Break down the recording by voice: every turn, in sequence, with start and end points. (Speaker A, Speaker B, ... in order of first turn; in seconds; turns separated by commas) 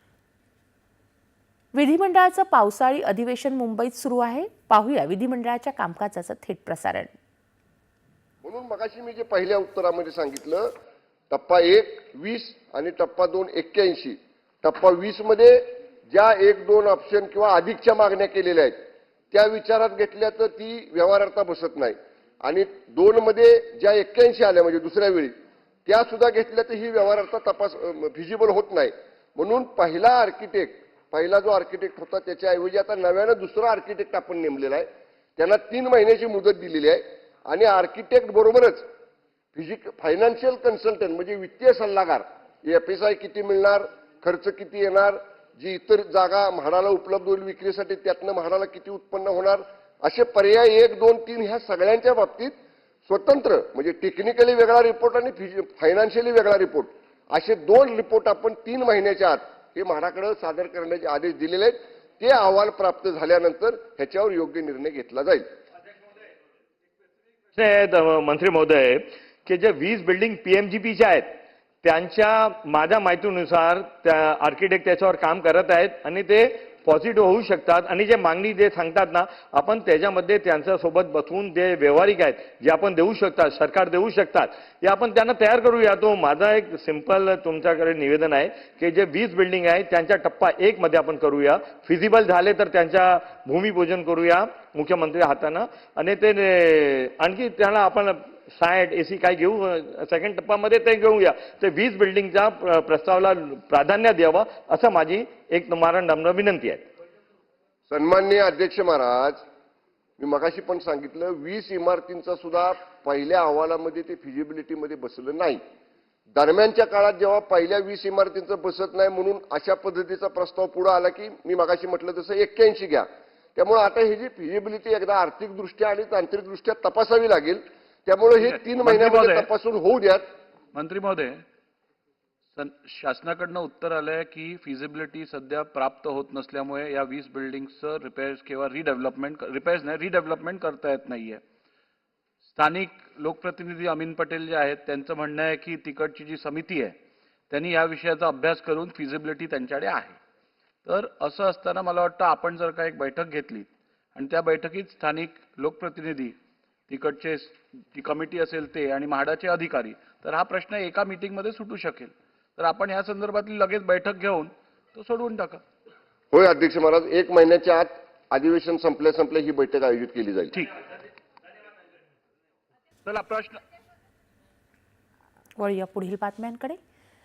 Speaker A: 1.7-7.1, Speaker B: 8.4-10.7, Speaker B: 11.3-18.8, Speaker B: 19.3-25.3, Speaker B: 25.9-38.9, Speaker B: 39.5-52.5, Speaker B: 53.1-65.4, Speaker C: 67.5-71.3, Speaker C: 71.8-106.8, Speaker B: 107.9-109.4, Speaker B: 110.2-115.6, Speaker B: 116.3-130.2, Speaker D: 128.4-129.5, Speaker D: 130.7-131.4, Speaker D: 132.5-141.4, Speaker D: 142.4-146.9, Speaker D: 147.5-150.2, Speaker D: 150.8-156.3, Speaker D: 156.9-165.6, Speaker B: 166.3-170.6, Speaker D: 173.0-173.6, Speaker A: 175.6-176.8